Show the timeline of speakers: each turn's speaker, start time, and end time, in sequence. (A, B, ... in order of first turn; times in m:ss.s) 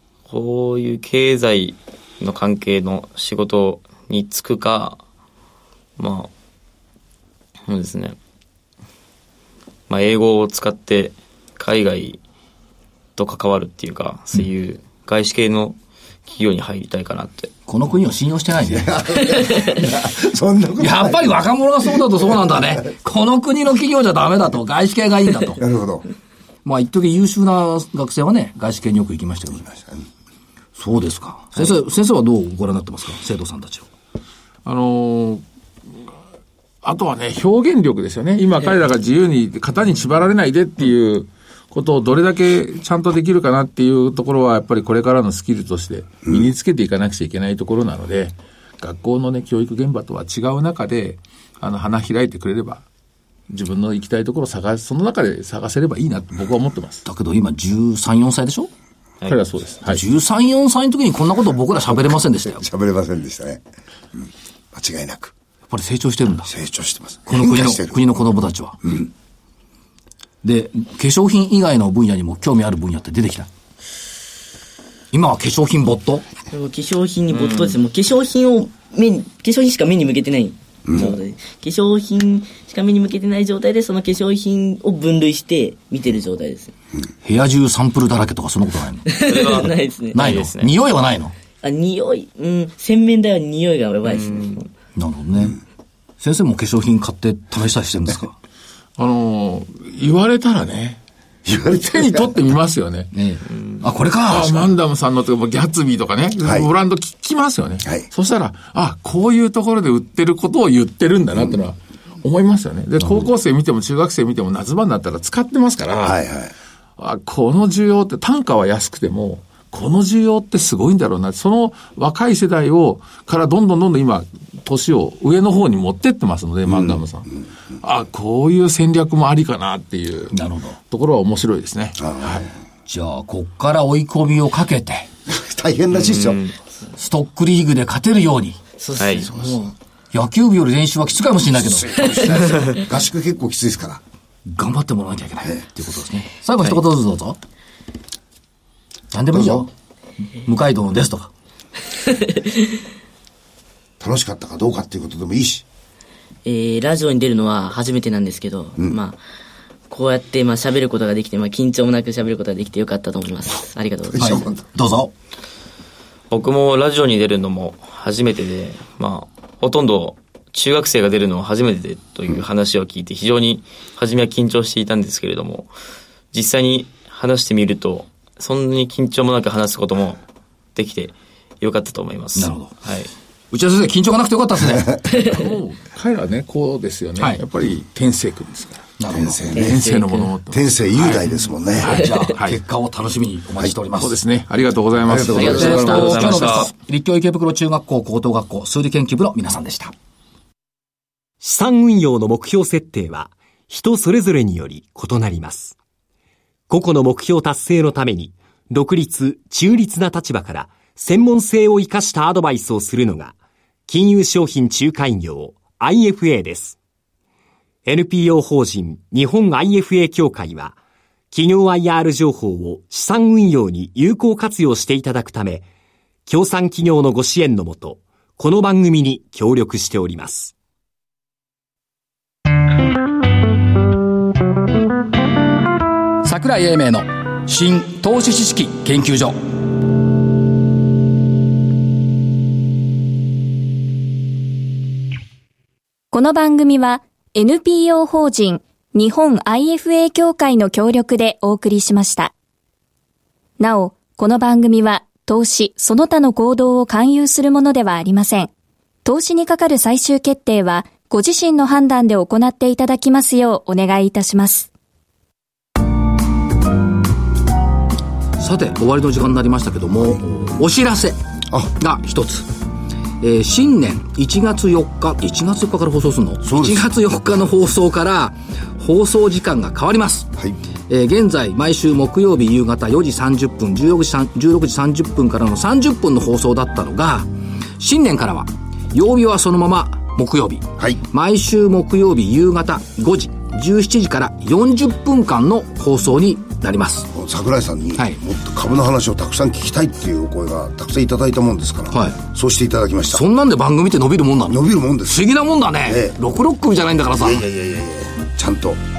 0:00.3-0:05.0 A
0:06.0-0:06.3 A
0:07.7-0:08.2 A
0:09.9-0:12.2 A
0:13.2-0:17.5 A
0:17.7-0:18.9 B
0:18.7-0:22.5 C
0:20.8-0:25.6 B
0:25.6-0:26.0 C
0:26.6-0:29.7 B
0:29.7-0:30.0 C
0:30.8-0:33.9 B
0:34.6-0:35.4 D
0:36.8-0:52.8 D
0:53.5-0:57.0 D
0:57.0-0:58.7 B
0:59.2-1:00.0 D
0:59.8-1:02.6 B
1:02.4-1:03.6 C
1:04.2-1:05.3 C
1:05.7-1:06.5 B
1:06.4-1:08.0 C
1:07.3-1:09.0 B
1:10.4-1:13.5 B
1:15.1-1:16.2 B
1:16.5-1:26.7 E
1:17.3-1:17.8 A
1:27.2-1:29.1 B
1:29.0-1:30.2 E
1:29.2-1:30.7 A
1:30.1-1:31.3 B
1:31.6-1:34.7 E
1:34.0-1:34.5 A
1:35.0-1:35.6 B
1:36.2-1:38.3 B
1:39.0-1:41.0 D
1:41.4-1:42.4 C
1:41.8-1:43.1 D
1:43.1-1:44.7 B
1:44.3-1:56.2 D
1:56.0-1:56.5 C
1:57.0-2:12.5 D
2:06.7-2:07.0 C
2:10.3-2:10.8 B
2:12.0-2:12.5 C
2:12.9-2:15.1 B
2:15.3-2:16.4 C
2:15.9-2:16.5 A
2:17.0-2:18.6 B
2:18.8-2:19.7 E
2:19.0-2:19.3 A
2:19.3-2:19.6 C
2:20.1-2:22.0 B
2:21.5-2:24.0 C
2:24.5-2:27.4 B
2:29.1-2:29.7 B
2:29.3-2:29.6 C
2:30.3-2:31.3 B
2:32.0-2:32.7 E
2:34.0-2:35.6 C
2:36.4-2:39.2 E
2:39.9-2:44.5 E
2:44.1-2:44.6 C
2:44.2-2:45.1 B
2:46.3-2:55.7 A
2:56.3-3:00.2 A
3:00.7-3:03.1 A
3:02.3-3:02.7 B
3:03.5-3:04.9 B
3:05.1-3:08.9 D
3:09.0-3:09.4 B
3:09.1-3:09.8 C
3:09.5-3:12.6 D
3:09.5-3:10.3 E
3:10.5-3:12.0 C
3:11.8-3:14.2 B
3:13.9-3:16.7 D
3:15.0-3:15.9 C
3:15.3-3:16.7 A
3:15.4-3:19.9 B
3:15.8-3:16.2 E
3:21.4-3:25.8 F
3:26.7-3:33.4 F
3:33.9-3:36.8 F
3:37.8-3:40.8 F
3:41.3-3:45.6 F
3:46.3-3:50.5 F
3:56.2-3:59.4 B
4:06.1-4:12.3 G
4:13.6-4:18.5 G
4:19.0-4:24.7 G
4:28.4-4:31.2 B
4:31.7-4:32.5 B
4:33.2-4:40.3 B
4:36.4-4:36.9 C
4:40.9-4:57.1 B
4:57.1-5:03.2 C
5:01.9-5:02.2 B
5:03.1-5:07.4 B
5:04.5-5:05.3 C
5:05.8-5:06.2 C
5:07.2-5:08.8 C